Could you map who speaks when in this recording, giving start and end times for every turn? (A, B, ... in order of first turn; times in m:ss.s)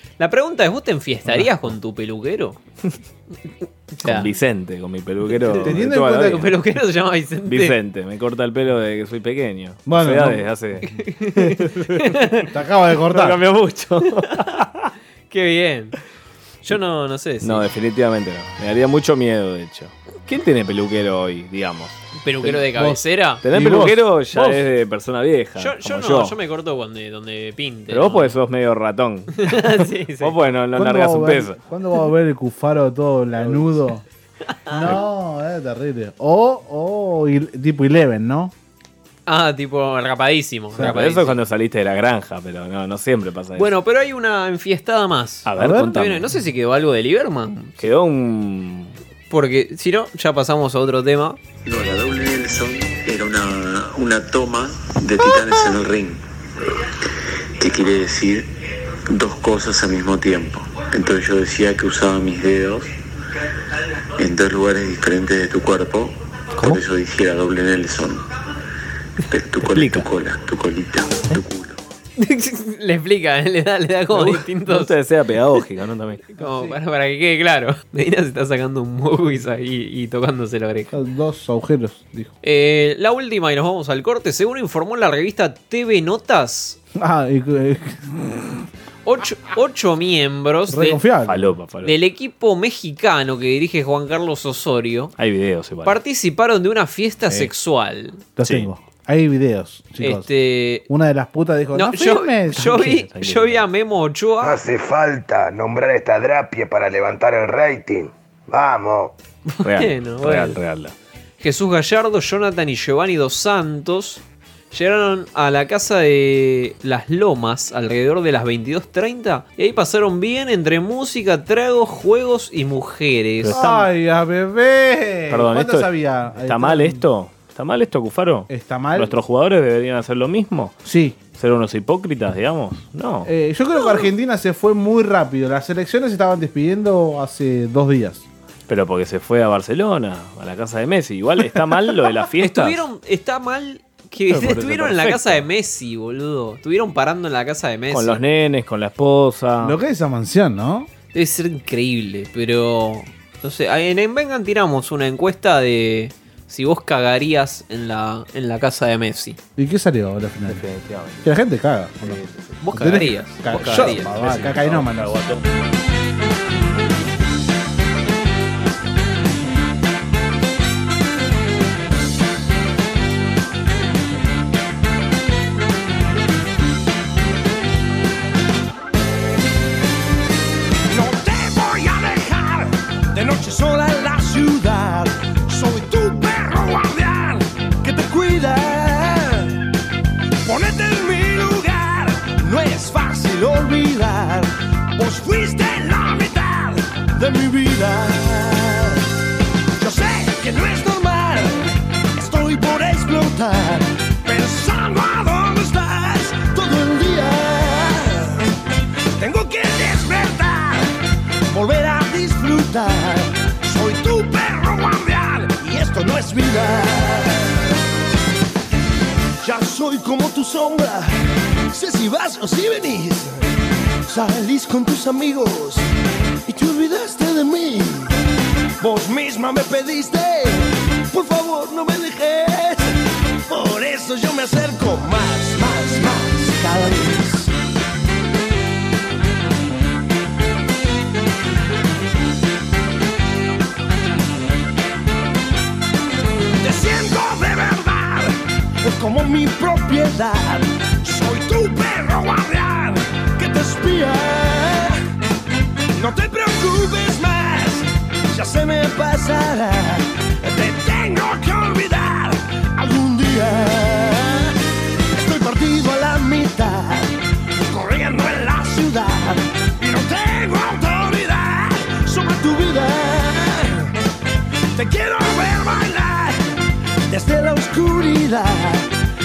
0:00.2-0:02.6 A
0:03.9-0:04.3 A
0:04.0-0:06.5 B
0:05.6-0:06.5 C
0:06.3-0:07.8 A
0:07.5-0:12.2 B
0:09.9-0:10.5 C
0:11.0-0:11.6 A
0:12.1-0:12.4 A
0:12.5-0:13.4 C
0:13.1-0:14.9 B
0:15.3-0:16.0 A
0:16.6-0:17.6 A
0:17.4-0:22.0 B
0:22.2-0:23.4 A
0:22.4-0:24.6 C
0:23.4-0:26.4 B
0:25.6-0:28.3 A
0:27.9-0:31.6 B
0:29.4-0:30.4 A
0:30.8-0:34.0 C
0:34.7-0:35.0 A
0:34.7-0:38.5 C
0:39.3-0:41.4 A
0:40.8-0:43.7 B
0:43.6-0:47.8 A
0:45.5-0:46.3 B
0:45.6-0:46.0 C
0:47.8-0:49.0 B
0:49.3-0:51.4 A
0:51.6-0:56.2 D
0:56.8-0:58.5 D
0:59.1-1:02.9 D
1:04.2-1:08.3 D
1:09.3-1:11.8 D
1:09.7-1:10.1 B
1:12.2-1:14.9 A
1:14.1-1:16.2 B
1:16.3-1:20.9 A
1:16.4-1:16.8 C
1:20.9-1:22.3 C
1:22.4-1:26.8 A
1:27.0-1:28.7 C
1:29.1-1:31.0 A
1:30.7-1:31.5 C
1:31.3-1:32.0 B
1:31.8-1:35.2 A
1:35.2-1:36.0 B
1:35.8-1:38.2 A
1:38.4-1:40.3 C
1:38.4-1:38.7 B
1:40.0-1:40.9 A
1:40.9-1:43.1 C
1:41.7-1:44.6 A
1:42.7-1:43.7 B
1:44.4-1:49.1 E
1:49.5-1:50.6 A
1:49.6-1:50.9 B
1:51.4-2:03.6 A
2:03.4-2:03.9 B
2:03.5-2:07.0 C
2:05.3-2:10.8 B
2:08.5-2:09.1 C
2:10.8-2:11.2 C
2:11.3-2:13.3 B
2:13.3-2:18.2 C
2:18.7-2:22.8 B
2:22.4-2:28.2 A
2:24.3-2:25.5 B
2:27.9-2:29.8 B
2:29.6-2:30.9 C
2:31.1-2:39.4 A
2:39.6-2:40.6 C
2:40.5-2:41.3 B
2:41.2-2:45.2 C
2:42.0-2:42.6 B
2:42.6-2:44.4 A
2:43.5-2:45.4 B
3:00.9-3:09.6 F
3:10.4-3:19.1 F
3:19.8-3:28.5 F
3:29.2-3:30.9 F
3:31.5-3:37.8 F
3:39.4-3:43.5 F
3:44.0-3:45.9 F
3:46.5-3:48.2 F
3:48.8-3:53.0 F
3:53.5-3:57.5 F
4:06.6-4:15.0 F
4:15.9-4:24.6 F
4:25.1-4:33.9 F
4:34.8-4:36.6 F
4:37.1-4:38.9 F